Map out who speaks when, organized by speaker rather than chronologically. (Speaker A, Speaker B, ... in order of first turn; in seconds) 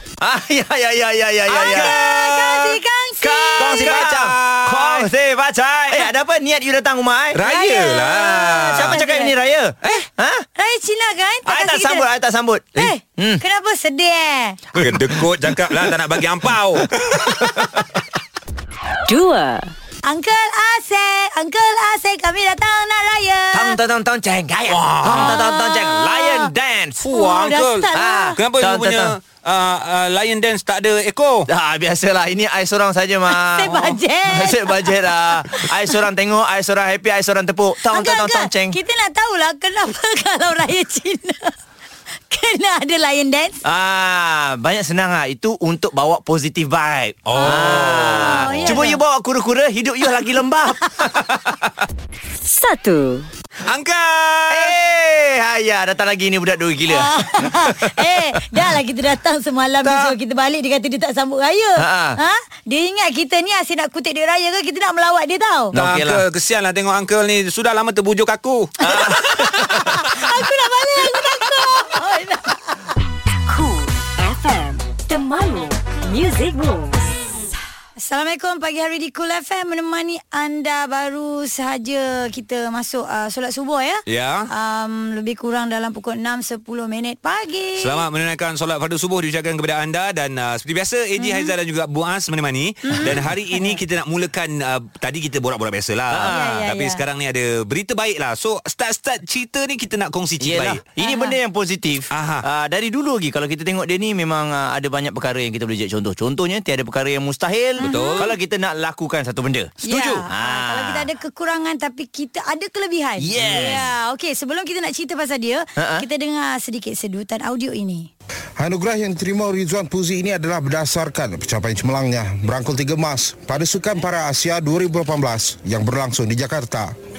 Speaker A: 0.2-1.9, 3.2-7.4, 8.7-10.4, 11.4-13.4, 14.7-16.2, 16.8-17.8, 23.5-27.0, 27.9-29.1, 31.5-38.8, 43.6-51.7, 54.5-57.9, 61.8-62.2, 65.7-66.2, 68.8-70.2, 96.1-96.5, 100.4-109.7, 110.3-111.1, 113.2-113.9, 115.8-116.0
Speaker B: 1.5-2.8, 3.6-5.1, 7.3-9.0, 14.8-17.8, 24.7-25.4, 27.0-31.5, 47.2-48.9, 53.6-54.7, 65.7-69.9, 84.1-84.5, 87.8-100.8, 102.1-102.5, 107.8-108.3, 109.8-110.2
Speaker C: 1.6-3.9, 7.4-9.3, 10.6-12.1, 12.8-14.6, 20.0-23.8, 25.1-26.5, 27.0-28.4, 33.3-35.0, 37.9-41.5, 42.3-43.6, 47.3-49.0, 56.9-65.7, 68.8-72.9, 78.0-88.0, 91.2-91.5, 92.9-93.8, 96.3-97.0, 101.0-101.4, 107.8-108.3, 109.8-118.1
Speaker D: 19.1-19.7, 52.4-53.3, 73.5-77.5
Speaker E: 118.6-126.9